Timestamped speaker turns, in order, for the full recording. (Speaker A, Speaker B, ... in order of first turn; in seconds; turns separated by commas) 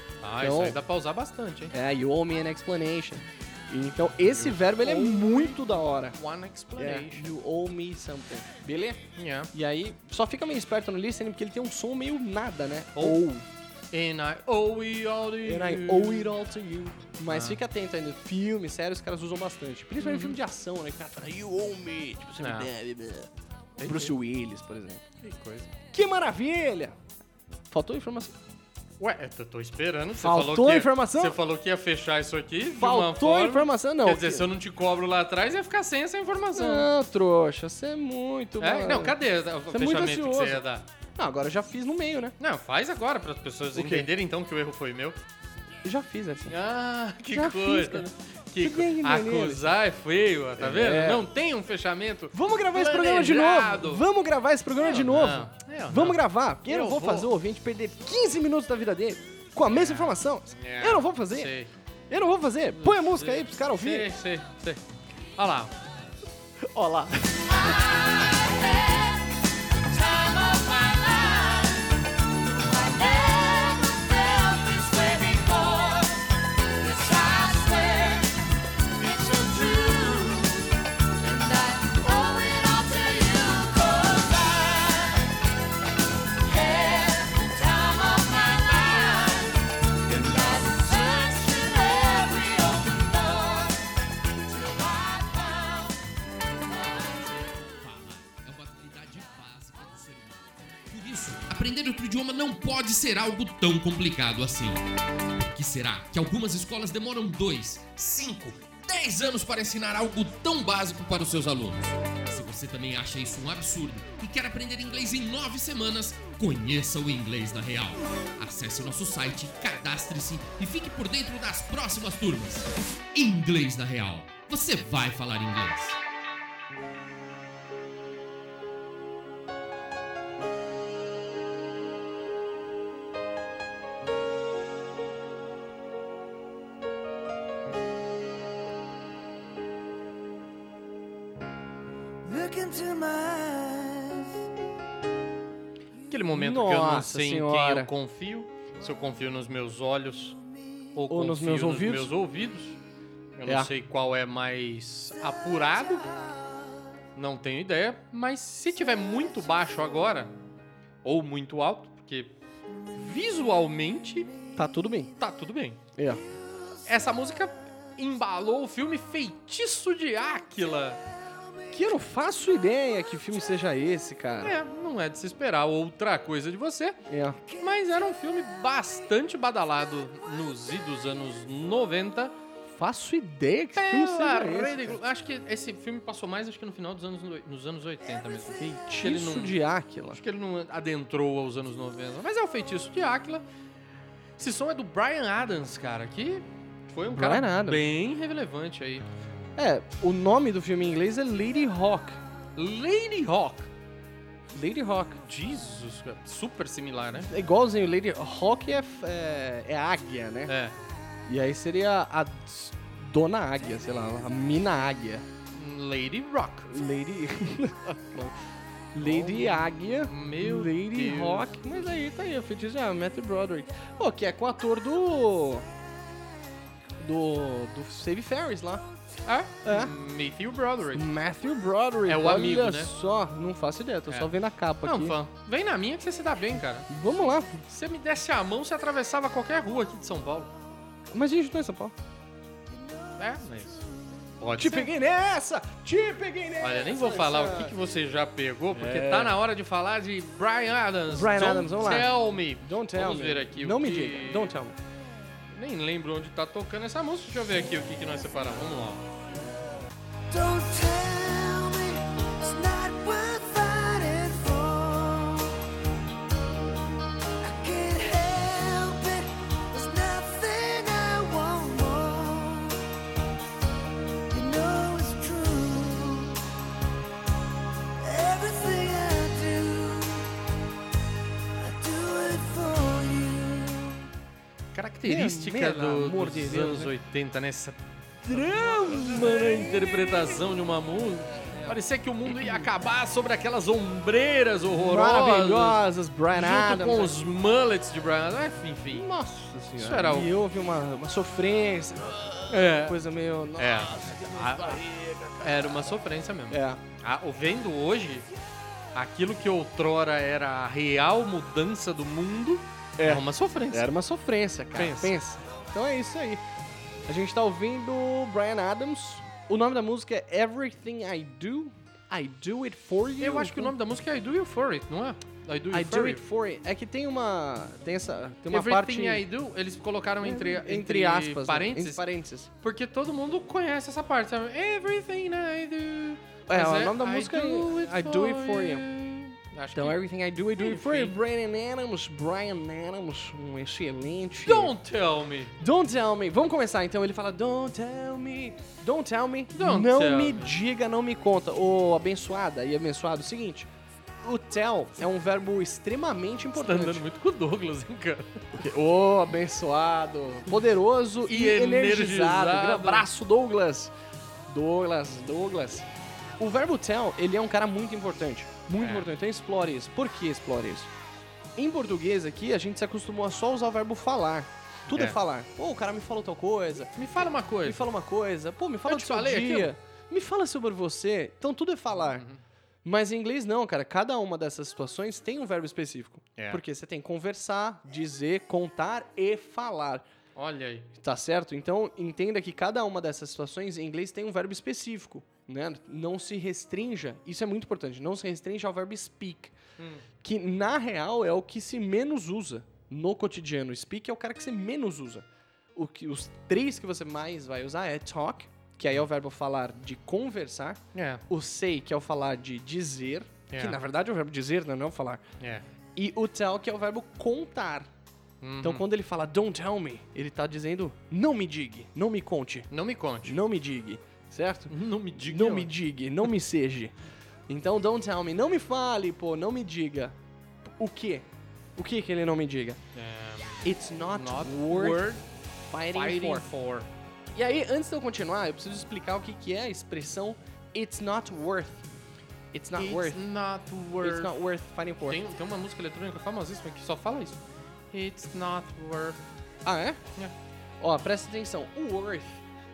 Speaker A: 0.2-1.7, Speaker B: 0.4-0.8, Speaker B: 1.7-6.2, Speaker A: 4.2-7.3, Speaker B: 6.8-9.0, Speaker A: 9.2-9.5, Speaker B: 9.5-13.5, Speaker A: 12.9-13.2, Speaker A: 13.9-16.3, Speaker B: 15.4-23.3, Speaker A: 17.3-17.6, Speaker A: 20.0-20.4, Speaker A: 22.4-22.7, Speaker A: 23.8-24.1, Speaker B: 23.8-25.1, Speaker A: 25.2-25.7, Speaker B: 25.9-27.0, Speaker B: 27.7-28.4, Speaker A: 29.0-36.9, Speaker B: 30.1-31.4, Speaker B: 32.8-34.5, Speaker B: 36.5-39.2, Speaker A: 38.6-40.9, Speaker B: 39.7-40.6, Speaker B: 41.2-42.4, Speaker A: 42.4-45.2, Speaker B: 43.7-44.1, Speaker B: 45.8-46.6, Speaker A: 46.5-54.1, Speaker B: 47.3-49.8, Speaker B: 50.6-51.3, Speaker B: 52.3-61.5, Speaker A: 54.8-57.3, Speaker A: 59.7-61.7, Speaker B: 62.1-64.1, Speaker A: 62.7-64.8, Speaker A: 65.4-65.7, Speaker B: 66.6-67.4, Speaker C: 67.7-69.2, Speaker C: 69.9-71.8, Speaker C: 72.5-76.1, Speaker C: 76.8-78.3, Speaker C: 79.0-80.7, Speaker C: 81.2-85.3, Speaker C: 86.5-89.5, Speaker C: 90.1-93.8, Speaker C: 94.9-95.4, Speaker D: 97.0-104.8, Speaker D: 105.4-126.0, Speaker C: 142.2-144.3, Speaker A: 146.1-150.4, Speaker B: 146.3-147.9, Speaker A: 150.9-152.8, Speaker B: 151.1-152.1, Speaker A: 153.4-156.0, Speaker B: 153.5-153.7, Speaker A: 157.2-160.3, Speaker A: 161.0-162.4, Speaker A: 163.0-164.3, Speaker B: 164.6-165.1, Speaker A: 165.2-165.8, Speaker B: 166.0-166.2, Speaker A: 166.9-171.0, Speaker B: 171.7-174.6, Speaker A: 174.4-177.0, Speaker B: 177.1-177.4, Speaker A: 177.6-182.3, Speaker B: 182.7-185.0, Speaker A: 183.8-189.6, Speaker B: 188.6-190.2, Speaker A: 190.1-193.4, Speaker A: 194.4-199.1, Speaker B: 197.1-197.8, Speaker B: 199.6-202.2, Speaker A: 202.6-203.7, Speaker B: 204.5-205.2, Speaker A: 205.3-207.3, Speaker B: 207.3-210.5, Speaker A: 210.5-210.8, Speaker B: 211.3-215.3, Speaker A: 215.5-216.7, Speaker B: 216.7-218.4, Speaker B: 218.9-225.7, Speaker A: 219.0-221.5, Speaker B: 227.0-228.9, Speaker A: 229.3-231.1, Speaker B: 229.7-229.9, Speaker B: 230.9-235.2, Speaker A: 232.1-232.9, Speaker A: 234.8-236.9, Speaker B: 236.9-237.7, Speaker A: 237.7-240.5, Speaker B: 241.1-241.9, Speaker A: 243.2-243.8, Speaker A: 244.4-244.9, Speaker B: 244.6-247.7, Speaker A: 246.6-254.5, Speaker B: 248.7-249.4, Speaker B: 251.1-254.8, Speaker A: 255.5-259.1, Speaker C: 260.3-265.6, Speaker C: 267.4-272.8, Speaker C: 274.3-276.4, Speaker C: 278.0-280.3, Speaker C: 281.6-284.0, Speaker A: 284.7-295.8, Speaker B: 285.1-286.9, Speaker B: 288.2-290.1, Speaker B: 291.4-292.7, Speaker B: 294.7-297.2, Speaker A: 296.3-299.1, Speaker B: 298.9-304.2, Speaker A: 299.8-300.3, Speaker A: 302.5-303.0, Speaker A: 303.6-304.8, Speaker C: 304.0-305.4, Speaker A: 305.4-308.3, Speaker B: 306.5-306.8, Speaker A: 308.9-313.9, Speaker B: 313.0-316.4, Speaker A: 314.7-315.2, Speaker B: 317.1-323.7, Speaker A: 323.2-326.2, Speaker B: 325.7-329.2, Speaker A: 328.5-332.0, Speaker B: 330.2-332.5, Speaker A: 332.6-340.0, Speaker B: 336.5-344.8, Speaker A: 340.6-341.1, Speaker A: 344.5-345.5, Speaker B: 345.6-353.7, Speaker A: 349.5-350.6, Speaker B: 354.2-357.0, Speaker A: 356.6-358.5, Speaker B: 358.5-363.9, Speaker A: 361.3-363.1, Speaker B: 364.5-365.9, Speaker B: 366.4-370.9, Speaker A: 368.8-369.1, Speaker B: 371.6-377.1, Speaker A: 374.9-375.2, Speaker A: 377.0-377.9, Speaker B: 377.6-382.2, Speaker A: 378.9-379.7, Speaker A: 382.1-382.4, Speaker B: 382.8-390.1, Speaker A: 386.4-386.6, Speaker A: 390.4-390.9, Speaker B: 390.9-399.5, Speaker A: 399.8-400.0, Speaker B: 400.2-415.2, Speaker A: 410.9-411.2, Speaker A: 413.5-413.8, Speaker A: 415.4-415.6, Speaker B: 415.9-417.9, Speaker A: 418.4-418.9, Speaker B: 418.6-422.7, Speaker A: 422.7-423.4, Speaker B: 423.2-426.9, Speaker A: 424.7-425.7, Speaker B: 427.5-432.8, Speaker A: 432.9-435.2, Speaker B: 433.6-435.1, Speaker B: 435.6-436.5, Speaker A: 435.9-436.9, Speaker B: 437.3-441.9, Speaker B: 442.5-443.2, Speaker A: 442.8-444.4, Speaker B: 444.0-445.2, Speaker A: 445.1-447.4, Speaker A: 447.9-449.2, Speaker B: 449.6-450.0, Speaker B: 450.8-452.4